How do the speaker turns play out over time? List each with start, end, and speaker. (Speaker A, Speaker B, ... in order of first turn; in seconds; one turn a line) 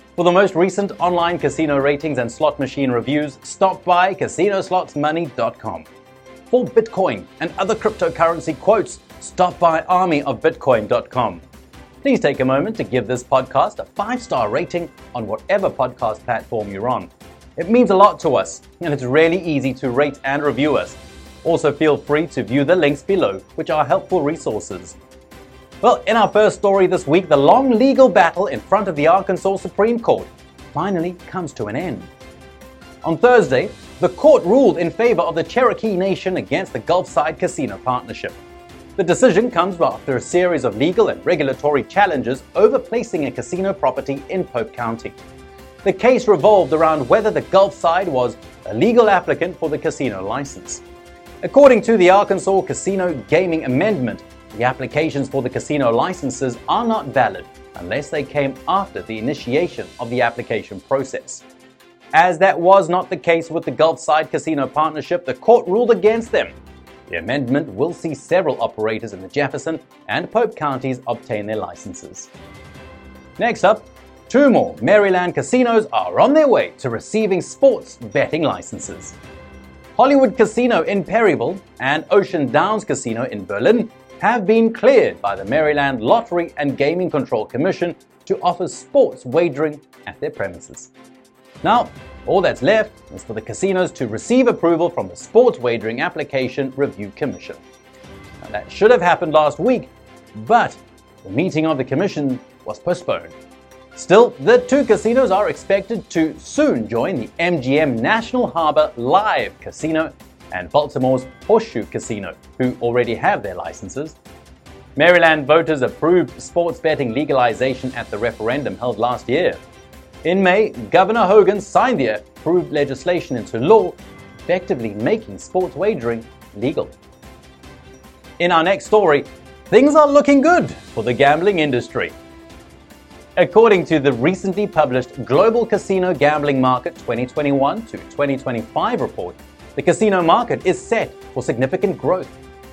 Speaker A: 0.2-5.9
Speaker A: 6.5-11.4
Speaker A: 12.0-25.0
Speaker A: 25.8-32.1
Speaker A: 33.0-38.4
Speaker A: 39.0-45.2
Speaker A: 45.8-50.8
Speaker A: 51.4-61.4
Speaker A: 62.1-66.5
Speaker A: 67.1-72.3
Speaker A: 73.4-79.2
Speaker A: 80.0-90.9
Speaker A: 91.6-97.6
Speaker A: 98.4-103.3
Speaker A: 103.9-114.2
Speaker A: 115.0-119.6
Speaker A: 120.2-127.0
Speaker A: 128.4-132.1
Speaker A: 133.4-142.3